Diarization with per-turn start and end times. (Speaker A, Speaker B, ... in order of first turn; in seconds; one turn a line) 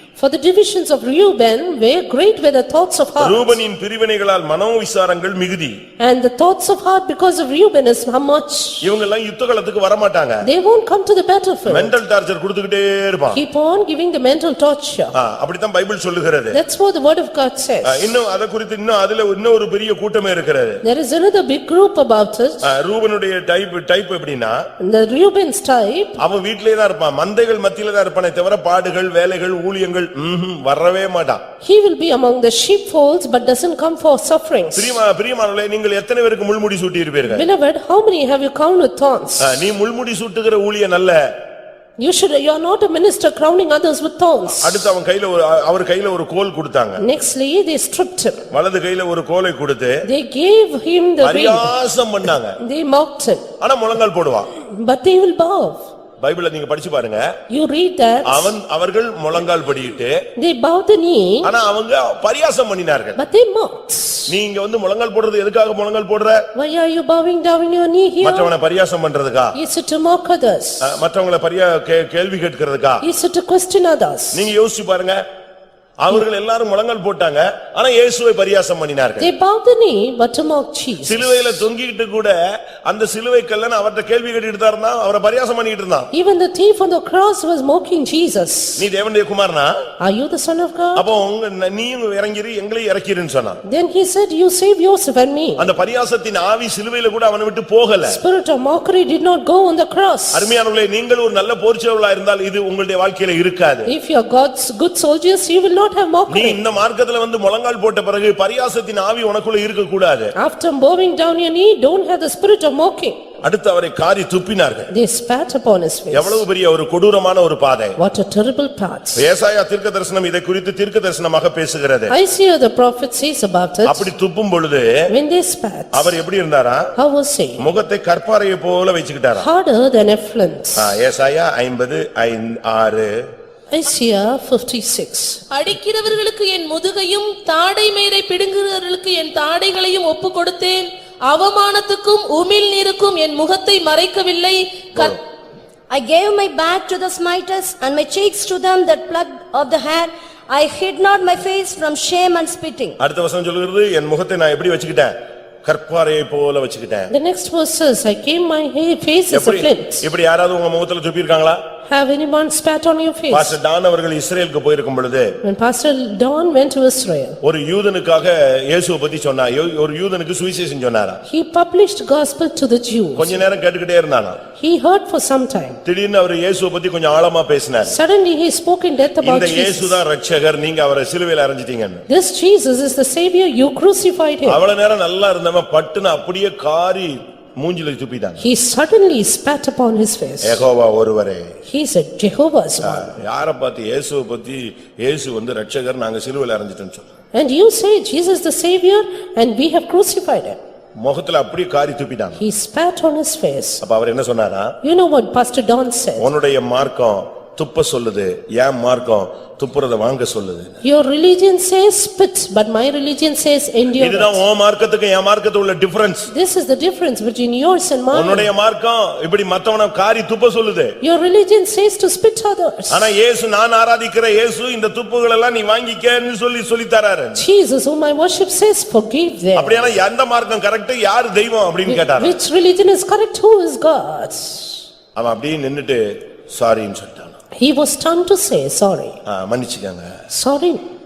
Speaker A: 0.2-3.6
Speaker B: 3.2-5.8
Speaker A: 6.0-8.8
Speaker B: 8.8-10.5
Speaker A: 10.4-11.9
Speaker B: 11.7-13.4
Speaker A: 13.3-15.1
Speaker B: 15.1-16.6
Speaker A: 16.5-18.1
Speaker B: 17.8-20.8
Speaker A: 20.8-22.6
Speaker B: 22.6-24.6
Speaker A: 24.8-26.2
Speaker B: 26.2-31.4
Speaker A: 31.6-35.0
Speaker B: 34.7-37.5
Speaker A: 37.2-39.5
Speaker B: 39.4-41.2
Speaker A: 42.0-44.9
Speaker B: 44.6-47.0
Speaker A: 47.0-48.5
Speaker B: 48.5-50.0
Speaker A: 50.0-51.7
Speaker B: 51.2-52.6
Speaker A: 52.6-53.5
Speaker B: 53.6-54.5
Speaker A: 54.5-55.8
Speaker B: 56.2-57.3
Speaker A: 57.5-58.5
Speaker B: 58.2-60.1
Speaker A: 60.4-61.5
Speaker B: 61.4-63.2
Speaker A: 63.2-64.3
Speaker B: 64.3-66.4
Speaker A: 66.5-68.5
Speaker B: 68.2-69.5
Speaker A: 69.5-70.9
Speaker B: 70.8-73.0
Speaker A: 73.0-74.5
Speaker B: 74.3-75.2
Speaker B: 76.0-79.3
Speaker A: 79.2-81.6
Speaker B: 81.0-86.1
Speaker A: 86.1-88.8
Speaker B: 88.8-89.7
Speaker A: 90.0-91.0
Speaker B: 91.0-93.6
Speaker A: 93.7-95.7
Speaker B: 95.6-98.2
Speaker A: 98.1-100.5
Speaker B: 100.3-103.9
Speaker A: 103.8-106.6
Speaker B: 106.3-110.3
Speaker A: 110.4-113.2
Speaker B: 113.4-114.9
Speaker A: 114.9-116.4
Speaker B: 116.1-118.0
Speaker A: 118.0-119.2
Speaker B: 119.2-122.1
Speaker A: 122.1-124.1
Speaker B: 123.8-124.9
Speaker A: 125.1-126.1
Speaker B: 125.9-126.9
Speaker A: 127.0-127.7
Speaker B: 127.6-129.5
Speaker A: 129.3-130.9
Speaker B: 130.8-133.1
Speaker A: 133.7-135.4
Speaker C: 135.5-145.2
Speaker D: 145.9-153.0
Speaker B: 153.0-155.1
Speaker B: 155.6-157.1
Speaker A: 157.1-160.0
Speaker B: 159.3-161.6
Speaker A: 161.9-163.5
Speaker B: 163.3-165.3
Speaker A: 165.4-167.4
Speaker B: 167.4-171.2
Speaker A: 171.3-173.4
Speaker B: 173.2-174.4
Speaker A: 174.6-175.8
Speaker B: 175.8-178.0
Speaker A: 177.8-180.0
Speaker B: 179.2-182.0
Speaker A: 182.1-184.6
Speaker B: 184.4-188.5
Speaker A: 188.4-190.6
Speaker B: 190.4-191.6
Speaker A: 191.7-193.2
Speaker B: 192.8-197.1
Speaker A: 197.3-200.6
Speaker B: 201.0-202.4
Speaker A: 202.4-203.8
Speaker B: 203.8-204.7
Speaker A: 204.8-206.3
Speaker B: 206.2-210.8
Speaker A: 210.8-214.4
Speaker B: 214.0-216.3
Speaker A: 216.3-218.5
Speaker B: 218.1-220.9
Speaker A: 221.0-223.1
Speaker B: 222.9-227.4
Speaker A: 227.3-229.9
Speaker B: 229.5-232.4
Speaker A: 231.8-234.7
Speaker B: 235.2-237.4
Speaker A: 237.6-239.2
Speaker B: 239.2-240.1
Speaker A: 240.3-240.8